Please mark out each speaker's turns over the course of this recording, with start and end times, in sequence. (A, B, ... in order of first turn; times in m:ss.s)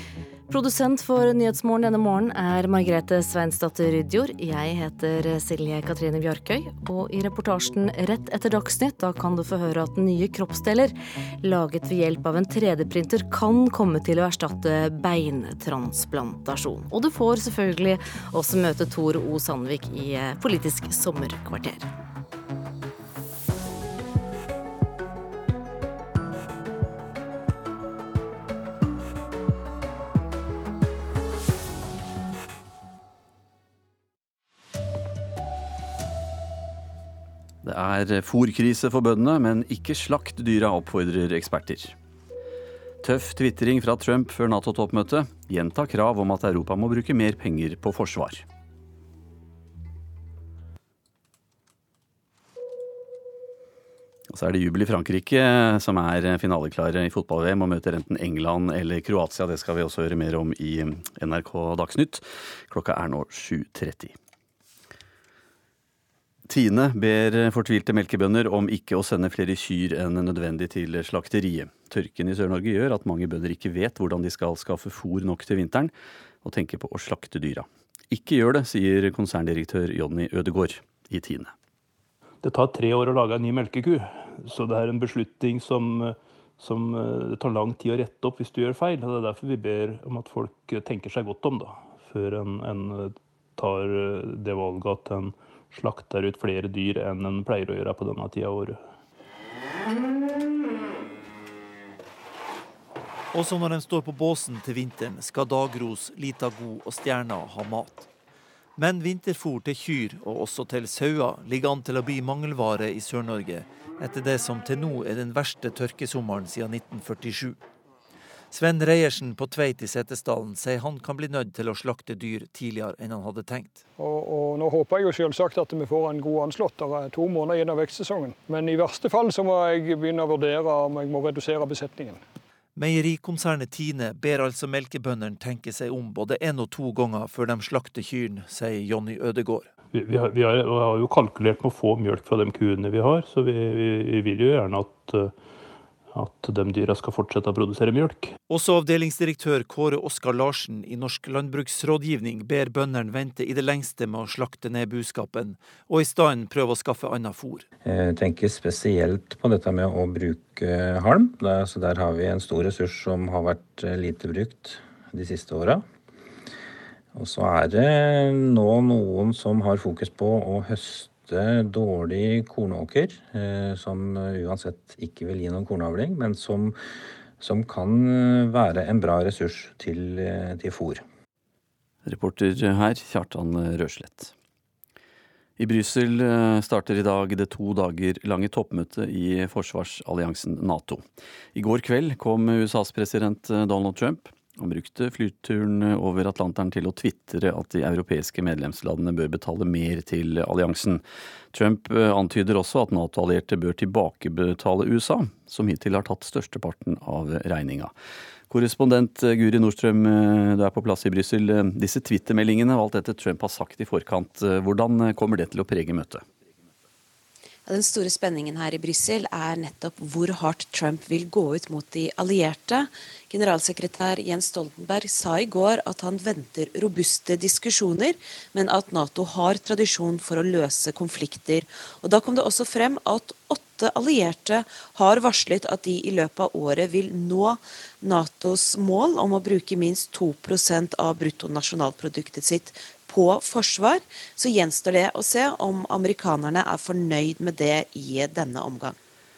0:00.5-0:21.9 A
0:37.6-0:41.9 B
0:43.0-0:48.4 B
0:54.3-1:04.1 B
1:06.5-1:21.5 B
1:22.4-1:38.8 C
1:43.3-1:48.1 D
1:48.8-1:57.6 D
1:58.5-2:03.8 D
2:04.0-2:12.2 E
2:12.8-2:19.7 D
2:19.9-2:25.4 C
2:26.1-2:28.3 C
2:28.5-2:37.6 D
2:37.8-2:45.8 F
2:47.1-2:56.8 F
2:57.4-3:01.0 F
3:02.0-3:04.3 B
3:05.6-3:11.0 B
3:11.5-3:27.9 B
3:28.5-3:36.2 B
3:37.6-4:09.0 G